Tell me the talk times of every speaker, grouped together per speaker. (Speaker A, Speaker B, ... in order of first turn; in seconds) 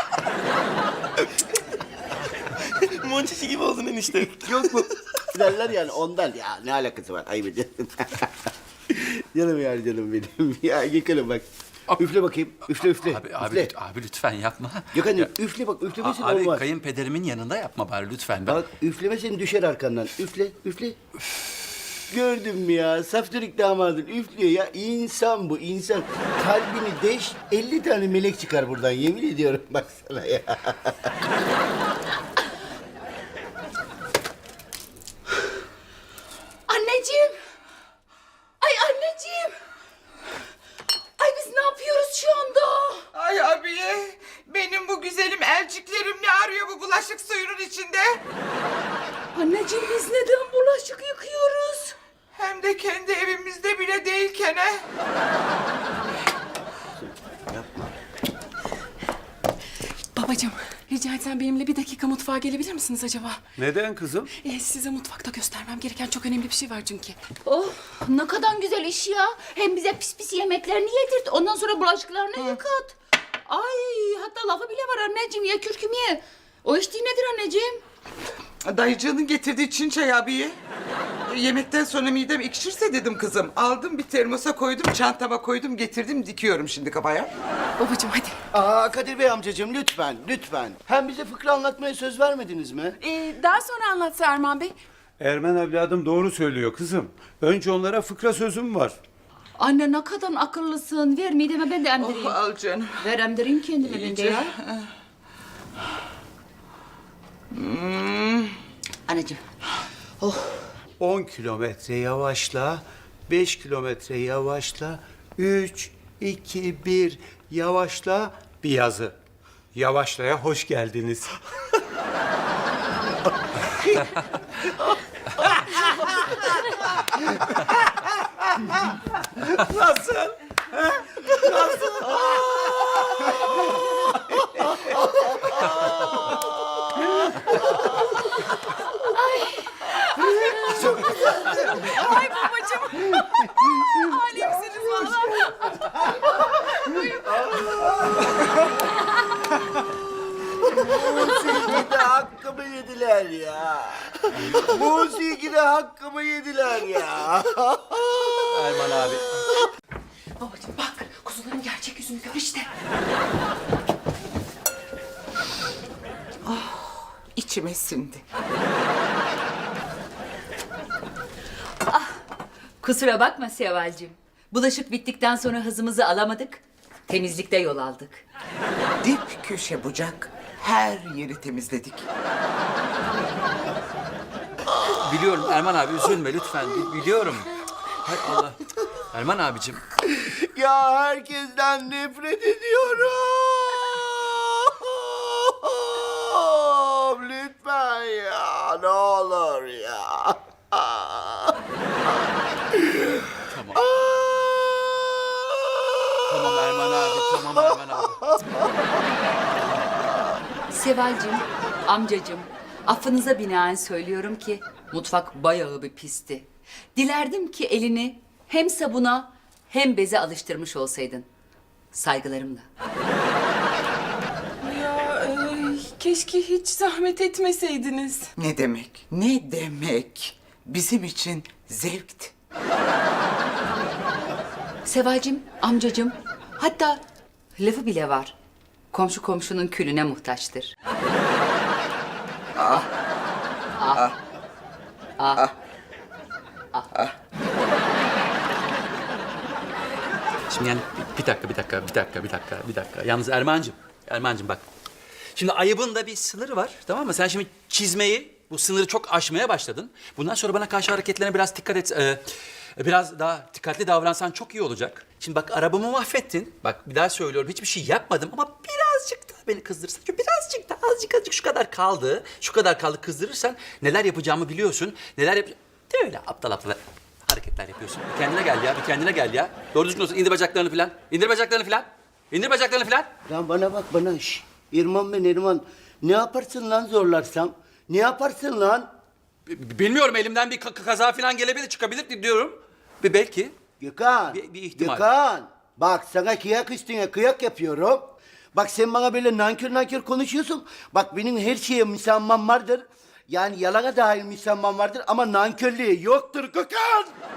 Speaker A: 2.5-5.1
Speaker B: 4.5-11.4, 12.0-13.7, 14.9-16.6, 18.4-21.0, 22.1-31.1, 57.0-57.9, 88.5-93.0, 146.4-148.7, 150.7-158.6, 190.1-201.6, 202.8-203.2, 203.8-206.1, 283.3-288.9, 293.8-307.1
Speaker C: 12.7-15.3, 16.0-18.6, 158.5-159.4, 184.8-189.8, 203.4-203.9, 206.2-208.5, 250.5-254.6, 255.4-262.2, 262.8-283.1, 289.5-293.5, 294.3-295.1
Speaker D: 36.7-37.4, 38.6-39.5, 41.2-43.0, 49.3-52.0, 67.4-77.8, 99.6-102.4, 103.0-104.5, 109.1-109.4, 110.2-110.6, 138.9-141.8, 160.4-162.7, 171.9-172.2, 172.8-178.2, 210.7-221.3, 221.9-222.7, 234.8-237.0, 237.6-238.3, 238.9-240.7, 243.8-244.1, 245.2-245.5
Speaker E: 43.1-48.2, 52.3-54.9, 78.6-80.6, 81.3-87.3, 102.0-103.1, 103.8-104.9, 107.5-108.6, 166.5-168.2, 179.0-182.1, 228.4-232.3, 242.6-242.9
Speaker F: 60.1-63.4, 64.4-67.2, 87.8-88.4, 93.0-94.8, 140.4-140.7, 141.3-146.0, 224.6-228.3
Speaker G: 63.6-64.3, 95.2-99.0, 111.0-119.2, 119.7-121.3, 125.4-126.7, 129.5-130.3, 130.9-132.7